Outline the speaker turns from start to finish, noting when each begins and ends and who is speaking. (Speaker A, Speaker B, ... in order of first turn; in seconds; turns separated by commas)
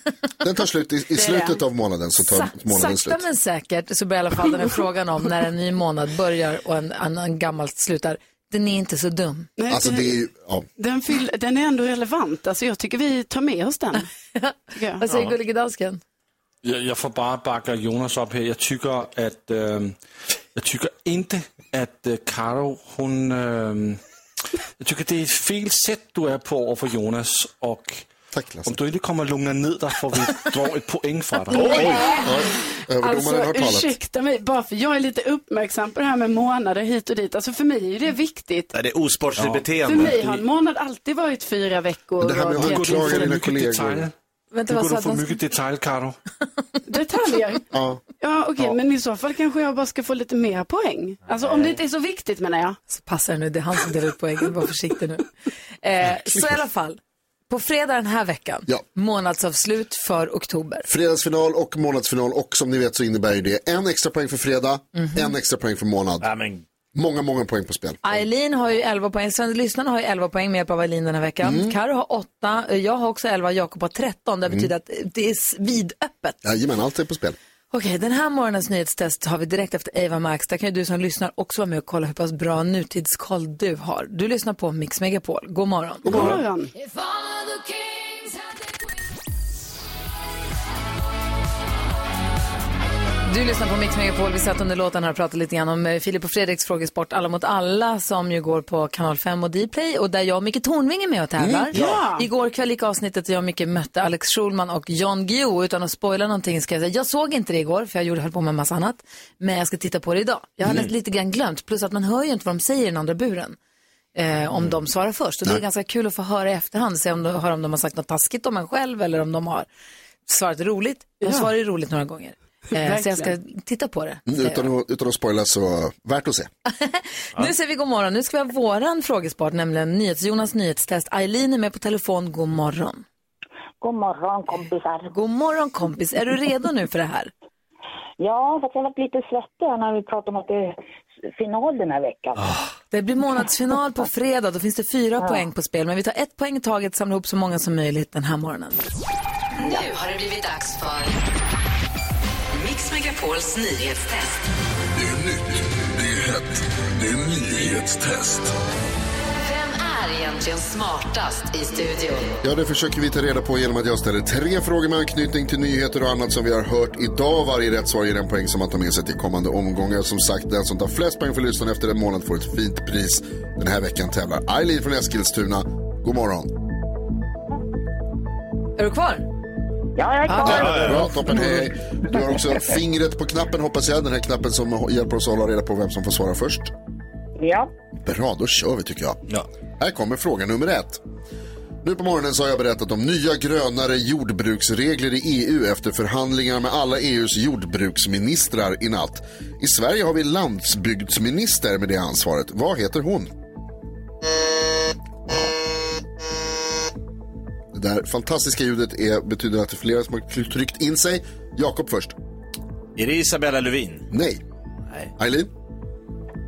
Speaker A: 0.4-3.3, Speaker B: 1.2-1.6, Speaker C: 2.2-9.5, Speaker B: 9.6-10.2, Speaker A: 9.7-10.7, Speaker B: 10.8-14.1, Speaker C: 14.3-16.0, Speaker B: 14.7-15.3, Speaker D: 16.6-20.0, Speaker D: 20.6-24.0, Speaker D: 24.8-28.1, Speaker A: 28.3-28.8, Speaker D: 28.6-31.7, Speaker E: 31.5-32.0, Speaker B: 31.6-32.4, Speaker A: 31.7-34.0, Speaker B: 33.0-38.7, Speaker E: 38.7-40.2, Speaker D: 39.4-40.4, Speaker B: 39.8-43.2, Speaker A: 42.2-44.1, Speaker D: 42.6-44.1, Speaker C: 44.5-45.4, Speaker D: 44.7-46.2, Speaker B: 46.9-47.7, Speaker A: 47.7-48.0, Speaker B: 48.2-52.8, Speaker C: 52.9-55.3, Speaker C: 55.8-60.9, Speaker A: 60.9-66.3, Speaker C: 65.0-65.3, Speaker E: 66.2-66.7, Speaker A: 66.9-68.2, Speaker C: 68.0-76.4, Speaker A: 71.4-71.8, Speaker A: 76.4-77.4, Speaker C: 77.7-86.3, Speaker A: 86.0-86.4, Speaker B: 86.1-86.7, Speaker C: 93.3-113.6, Speaker A: 101.4-101.7, Speaker E: 101.7-102.0, Speaker B: 101.7-102.3, Speaker C: 114.2-119.7, Speaker C: 120.3-124.7, Speaker B: 122.8-123.3, Speaker A: 124.3-126.5, Speaker C: 126.7-133.1, Speaker F: 133.8-135.1, Speaker C: 135.1-137.3, Speaker F: 138.2-140.8, Speaker F: 141.3-142.5, Speaker C: 142.9-148.8, Speaker G: 149.8-150.6, Speaker C: 150.5-150.8, Speaker G: 152.6-154.3, Speaker H: 155.0-156.5, Speaker H: 157.0-158.5, Speaker C: 159.5-162.1, Speaker A: 162.4-176.5, Speaker C: 178.8-179.3, Speaker F: 180.0-181.5, Speaker C: 180.3-181.7, Speaker E: 180.4-181.1, Speaker A: 180.4-186.7, Speaker F: 182.2-182.5, Speaker F: 187.4-187.7, Speaker A: 188.0-189.2, Speaker A: 189.8-191.0, Speaker A: 191.8-203.3, Speaker A: 207.7-212.2, Speaker E: 213.0-214.1, Speaker A: 214.1-214.4, Speaker A: 215.2-215.5